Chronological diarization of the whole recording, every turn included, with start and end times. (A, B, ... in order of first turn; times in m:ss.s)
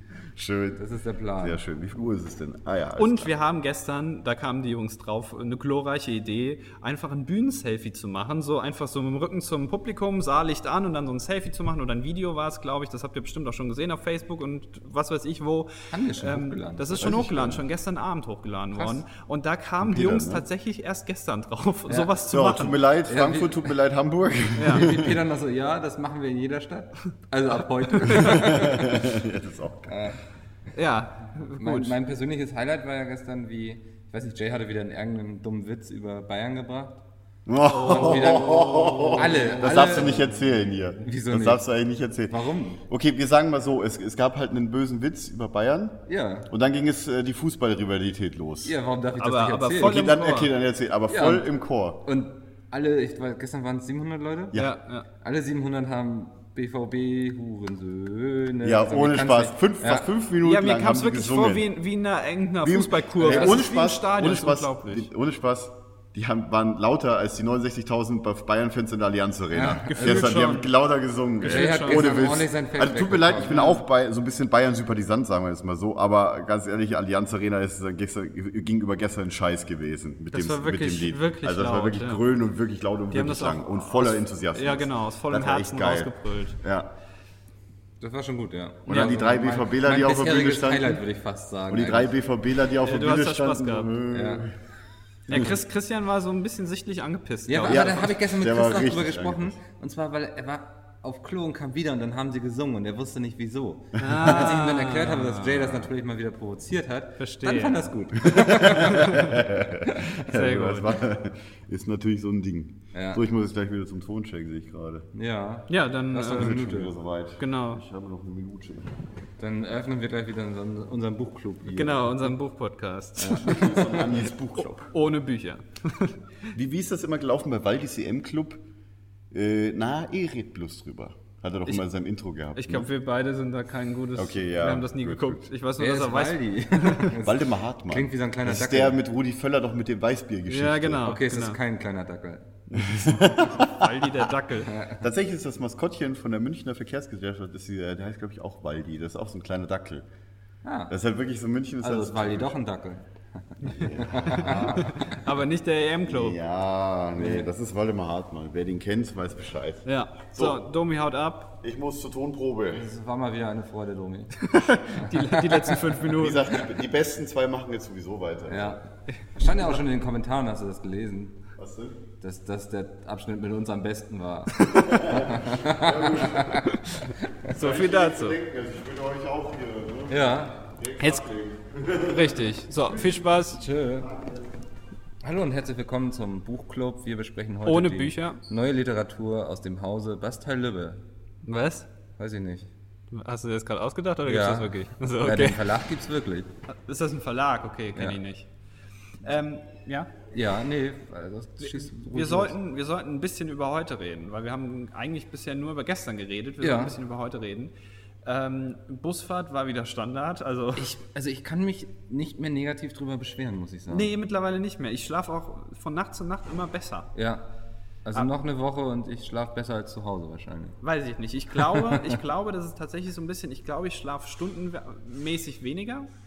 0:00.4-0:00.8 A
0:00.8-0:01.6 B
0:01.4-0:03.3 A
0:03.0-0:22.8 C
0:15.9-0:17.5 B
0:17.0-0:17.6 A
0:18.7-0:19.0 B
0:19.8-0:20.4 A
0:21.9-0:22.1 B
0:22.3-0:25.2 A
0:23.1-0:23.7 B
0:24.6-0:24.9 C
0:24.6-0:29.1 B
0:28.0-0:28.4 C
0:28.2-0:30.0 A
0:29.9-0:30.2 B
0:30.7-0:31.9 C
0:31.6-0:37.0 B
0:37.4-0:48.8 A
0:37.6-0:39.6 C
0:37.7-0:41.6 B
0:42.3-0:42.8 B
0:46.1-0:46.5 B
0:48.6-0:50.1 B
0:49.2-0:50.5 C
0:49.8-0:52.0 A
0:51.1-0:51.5 B
0:52.0-0:54.6 B
0:54.5-0:55.1 C
0:55.2-1:00.1 B
0:58.6-1:01.7 A
1:00.4-1:05.1 C
1:02.6-1:26.9 A
1:03.2-1:03.6 B
1:09.5-1:10.4 B
1:09.8-1:10.7 C
1:11.4-1:12.1 C
1:11.4-1:13.8 B
1:13.5-1:13.8 C
1:20.3-1:22.2 C
1:23.1-1:26.6 C
1:28.0-1:32.1 B
1:28.8-1:31.0 A
1:31.7-1:34.6 A
1:32.8-1:33.9 C
1:34.1-1:34.5 B
1:35.3-1:37.9 C
1:37.5-1:50.0 B
1:37.6-1:39.6 A
1:44.0-1:45.8 C
1:47.2-1:47.9 C
1:48.2-1:55.1 A
1:48.8-1:49.4 C
1:50.2-1:51.0 C
1:52.9-1:53.2 B
1:55.1-1:56.9 B
1:55.7-1:56.6 C
1:56.3-1:59.0 A
1:57.4-1:57.8 C
1:59.4-2:02.3 B
2:01.7-2:04.1 C
2:03.2-2:04.1 B
2:03.4-2:04.9 A
2:04.9-2:06.2 C
2:06.5-2:08.6 A
2:09.3-2:12.9 A
2:12.5-2:17.1 C
2:14.1-2:15.4 A
2:15.8-2:19.0 B
2:17.2-2:21.1 A
2:20.5-2:21.6 C
2:21.0-2:22.5 B
2:22.7-2:24.1 A
2:23.3-2:24.8 C
2:24.7-2:25.0 B
2:25.0-2:30.0 A
2:30.6-2:30.9 B
2:30.9-2:32.5 A
2:31.8-2:35.0 B
2:33.7-2:35.0 A
2:34.4-2:36.4 C
2:36.0-2:40.6 A
2:37.2-2:37.5 B
2:39.8-2:41.5 C
2:41.6-2:42.9 A
2:42.7-2:45.8 B
2:44.4-2:46.5 C
2:46.1-2:48.8 A
2:48.5-2:51.4 B
2:49.1-2:49.6 C
2:51.6-2:52.0 A
2:52.2-2:57.5 B
2:54.8-2:56.7 A
2:57.5-2:58.4 C
2:57.5-3:02.4 A
3:00.1-3:00.6 B
3:01.0-3:01.2 C
3:02.1-3:03.6 C
3:03.5-3:04.1 B
3:05.2-3:11.0 B
3:07.6-3:08.4 C
3:11.4-3:11.9 C
3:12.2-3:12.7 B
3:13.1-3:15.6 C
3:14.2-3:16.5 B
3:16.7-3:18.5 C
3:19.2-3:20.1 C
3:20.3-3:22.5 B
3:21.6-3:27.7 C
3:26.6-3:27.0 B
3:28.2-3:30.9 C
3:30.8-3:34.1 B
3:33.9-3:37.1 C
3:37.1-3:37.4 B
3:38.0-3:40.8 B
3:40.8-3:46.1 C
3:41.5-3:42.2 B